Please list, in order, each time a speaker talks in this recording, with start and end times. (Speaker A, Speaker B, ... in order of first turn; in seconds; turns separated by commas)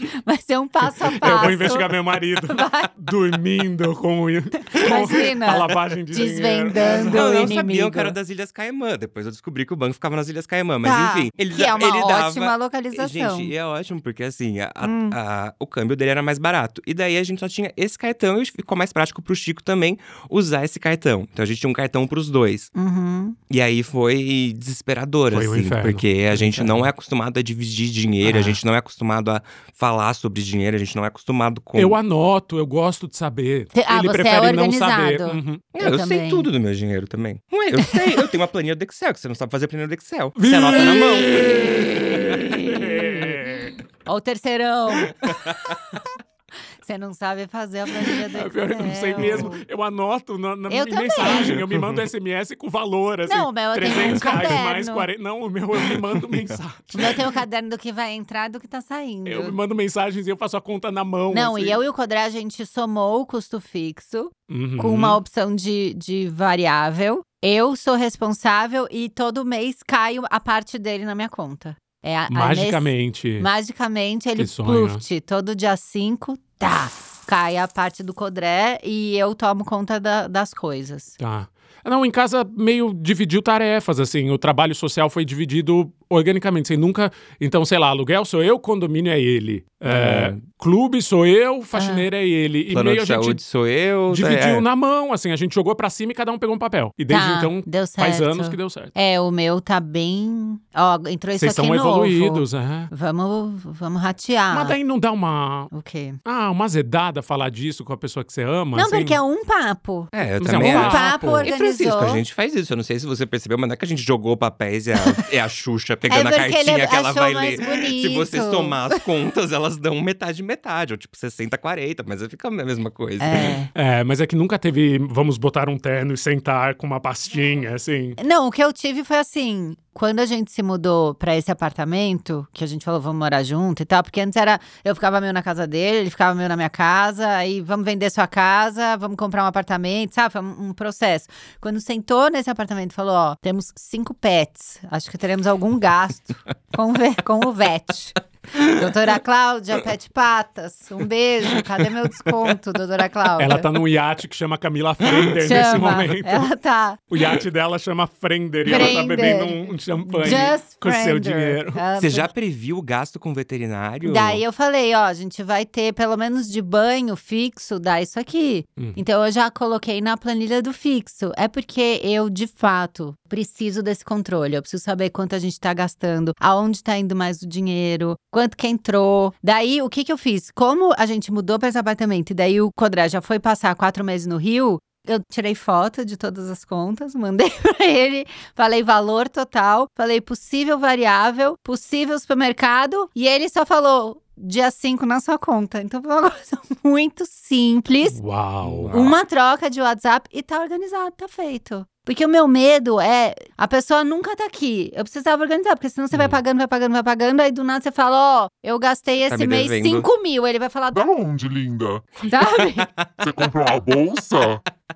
Speaker A: 0.2-1.9, Speaker B: 1.2-7.3, Speaker A: 2.5-2.9, Speaker A: 4.8-8.1, Speaker C: 6.9-22.7, Speaker A: 10.8-13.5, Speaker A: 14.8-15.2, Speaker A: 22.7-23.4, Speaker C: 23.5-32.0, Speaker B: 25.3-26.9, Speaker B: 28.2-28.6, Speaker B: 31.8-35.6, Speaker A: 33.7-36.5, Speaker C: 35.7-41.9, Speaker B: 40.4-43.8, Speaker A: 42.6-43.2, Speaker A: 44.0-45.7, Speaker A: 46.8-49.6, Speaker B: 48.3-57.2, Speaker A: 50.7-51.6, Speaker A: 53.3-55.1, Speaker A: 56.9-59.5, Speaker B: 59.2-61.8, Speaker A: 61.3-81.2, Speaker B: 64.5-65.2, Speaker B: 72.3-73.5, Speaker B: 74.3-75.0, Speaker B: 81.2-93.4, Speaker C: 89.9-90.4, Speaker A: 91.7-92.1, Speaker C: 92.7-94.7, Speaker B: 94.1-98.9, Speaker A: 97.1-104.8, Speaker B: 101.4-102.9, Speaker B: 104.5-105.7, Speaker A: 105.7-106.2, Speaker B: 106.2-109.2, Speaker A: 108.7-112.2, Speaker C: 110.1-123.5, Speaker B: 110.4-111.5, Speaker A: 116.1-118.9, Speaker A: 123.2-123.7, Speaker B: 123.7-128.2, Speaker A: 128.2-153.7, Speaker B: 153.4-156.5, Speaker A: 155.4-157.0, Speaker B: 157.1-161.8, Speaker A: 158.7-162.3, Speaker C: 162.0-164.4, Speaker A: 164.0-198.2, Speaker B: 198.1-198.9, Speaker C: 198.6-199.2, Speaker A: 198.9-211.1, Speaker C: 209.3-210.1, Speaker D: 210.9-212.1, Speaker A: 212.2-212.9, Speaker D: 213.2-214.6